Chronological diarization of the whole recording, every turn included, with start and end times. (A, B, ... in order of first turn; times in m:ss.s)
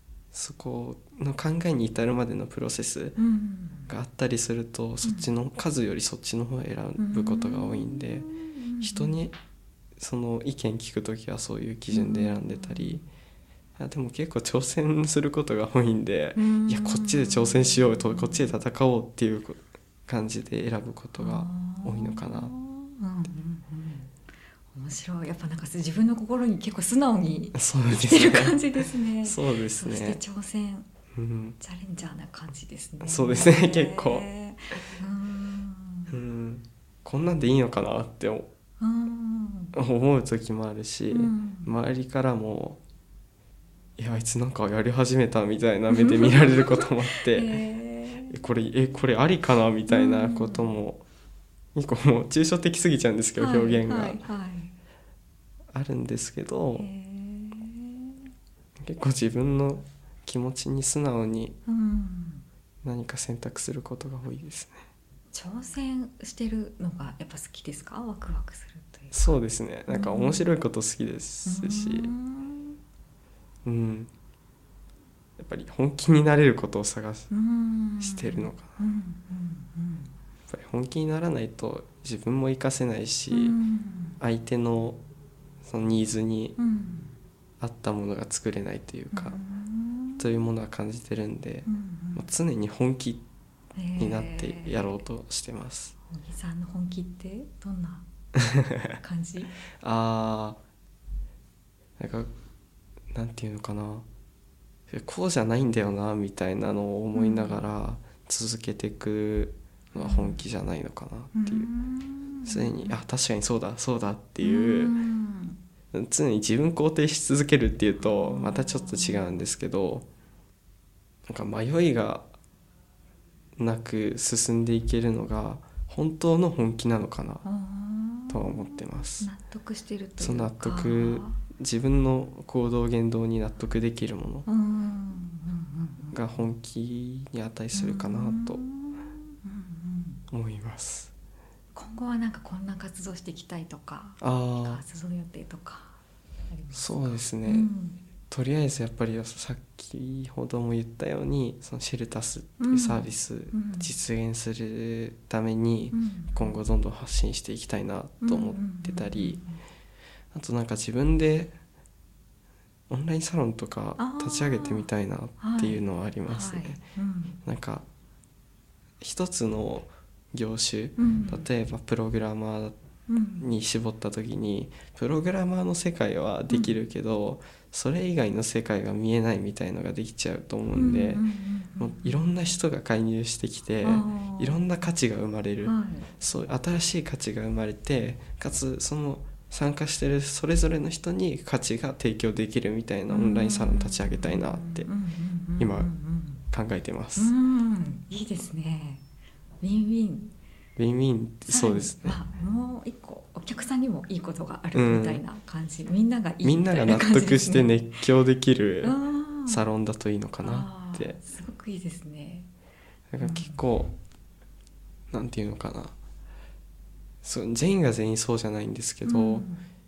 0:00.3-0:03.2 A
0:03.2-0:03.9 B
0:03.9-0:08.3 A
0:05.0-0:05.3 B
0:07.0-0:09.2 B
0:08.8-0:09.3 A
0:10.0-0:13.0 A
0:11.9-0:13.0 B
0:13.8-0:22.5 A
0:16.4-0:18.5 B
0:21.2-0:24.1 B
0:24.7-0:30.9 B
0:27.5-0:30.2 A
0:31.1-0:31.6 A
0:31.6-0:36.2 B
0:33.0-0:34.3 A
0:36.1-0:38.5 A
0:38.8-0:39.7 B
0:39.7-0:42.8 A
0:41.1-0:41.7 B
0:44.0-0:47.6 A
0:45.9-0:48.4 B
0:48.3-0:51.0 A
0:49.9-0:50.7 B
0:51.7-0:54.2 A
0:53.4-0:54.7 B
0:55.7-0:56.9 A
0:56.8-0:58.3 B
0:58.8-1:01.6 A
1:01.7-1:02.4 B
1:02.8-1:04.8 A
1:05.3-1:10.5 B
1:09.1-1:12.1 A
1:11.4-1:12.8 B
1:13.6-1:14.1 A
1:15.4-1:17.3 A
1:17.3-1:20.1 B
1:18.0-1:18.8 A
1:20.5-1:23.6 A
1:23.3-1:24.2 B
1:24.2-1:25.0 A
1:25.6-1:26.6 A
1:26.6-1:27.1 B
1:27.6-1:29.4 A
1:29.1-1:30.3 B
1:30.2-1:33.2 A
1:31.6-1:32.3 B
1:33.7-1:35.0 B
1:34.0-1:35.9 A
1:36.0-1:38.1 B
1:39.0-1:39.5 B
1:39.8-1:40.6 A
1:42.0-1:42.3 A
1:43.1-1:44.0 A
1:44.9-1:51.7 A
1:47.1-1:47.6 B
1:50.0-1:50.4 B
1:51.3-1:53.0 B
1:52.4-1:54.9 A
1:54.4-1:55.6 B
1:55.9-2:00.0 A
1:58.0-1:59.4 B
2:01.3-2:02.3 A
2:03.6-2:07.4 A
2:07.4-2:11.4 B
2:08.3-2:09.3 A
2:10.2-2:14.4 A
2:14.4-2:16.4 B
2:16.1-2:18.6 A
2:17.7-2:20.2 B
2:20.3-2:21.1 A
2:21.7-2:28.0 B
2:24.2-2:24.8 A
2:26.7-2:27.7 A
2:28.3-2:39.4 A
2:32.6-2:33.9 B
2:35.9-2:36.6 B
2:38.2-2:39.6 B
2:40.3-2:41.5 A
2:42.9-2:46.8 A
2:44.0-2:44.9 B
2:45.4-2:47.4 B
2:47.4-2:47.8 A
2:49.0-2:52.8 A
2:51.0-2:51.4 B
2:53.1-2:53.5 B
2:53.4-3:01.2 A
2:56.5-2:56.8 B
3:00.7-3:02.2 B
3:01.8-3:14.9 A
3:03.8-3:04.7 B
3:05.6-3:06.1 B
3:13.1-3:16.4 B
3:15.6-3:15.9 A
3:16.5-3:17.3 A
3:17.2-3:19.0 B
3:19.6-3:20.3 B
3:20.8-3:22.2 A
3:21.5-3:27.9 B
3:24.7-3:25.2 A
3:26.4-3:31.2 A
3:28.8-3:29.7 B
3:30.4-3:32.5 B
3:33.1-3:33.9 A
3:33.2-3:33.6 B
3:35.1-3:35.9 A
3:37.2-3:39.5 A
3:39.0-3:39.6 B